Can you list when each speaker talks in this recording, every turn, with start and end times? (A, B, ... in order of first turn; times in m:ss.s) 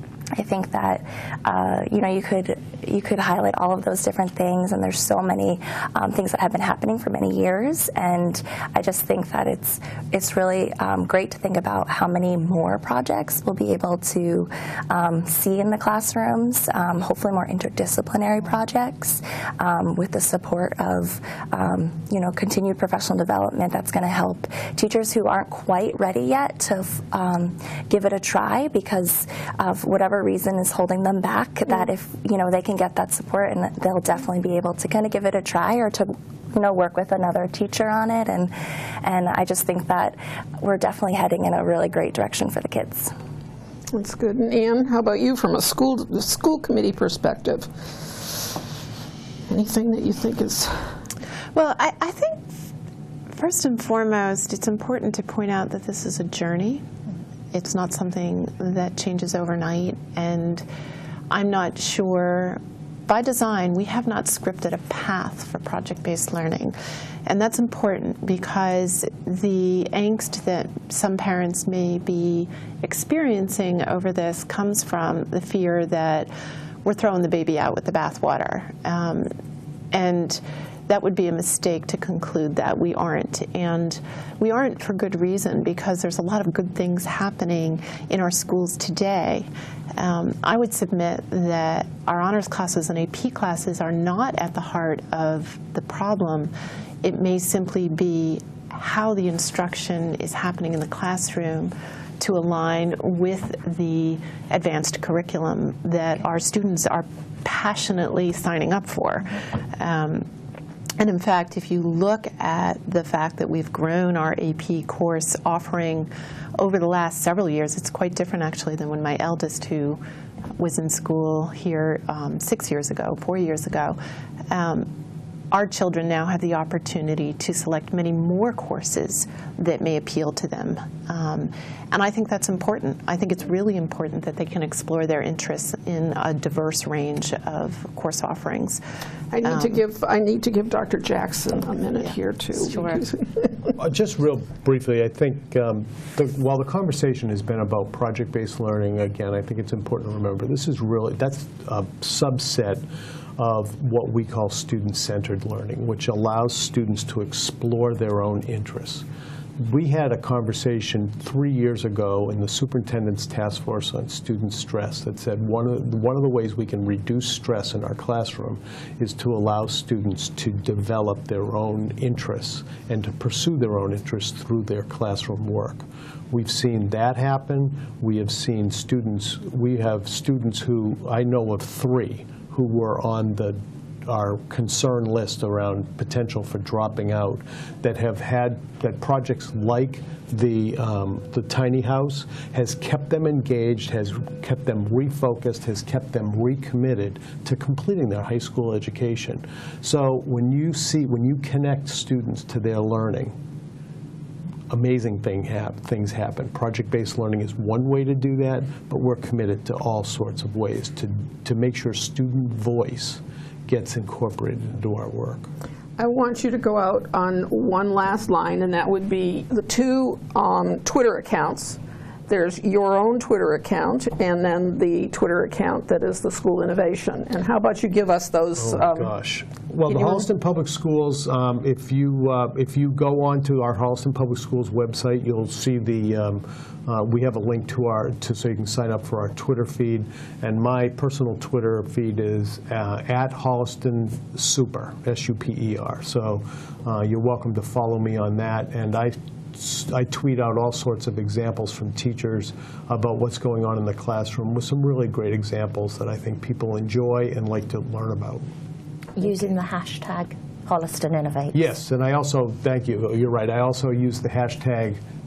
0:00.3-0:43.1 A
0:43.9-0:48.5 B
0:49.5-0:50.8 B
0:51.5-0:52.5 C
0:53.3-0:56.8 C
0:57.5-1:00.6 C
1:01.3-1:06.7 C
1:07.2-1:16.3 C
1:16.8-1:19.3 C
1:19.9-1:36.5 C
1:37.0-1:50.3 C
1:51.0-2:00.0 C
2:00.6-2:04.0 C
2:04.5-2:04.9 C
2:05.5-2:18.8 C
2:19.3-2:23.7 B
2:19.4-2:19.8 C
2:22.6-2:23.0 C
2:23.8-2:32.8 D
2:33.4-2:39.0 D
2:39.6-3:23.3 D
3:24.7-3:35.5 D
3:36.0-3:49.1 B
3:48.6-4:18.4 D
4:19.2-4:21.7 E
4:21.5-4:25.0 D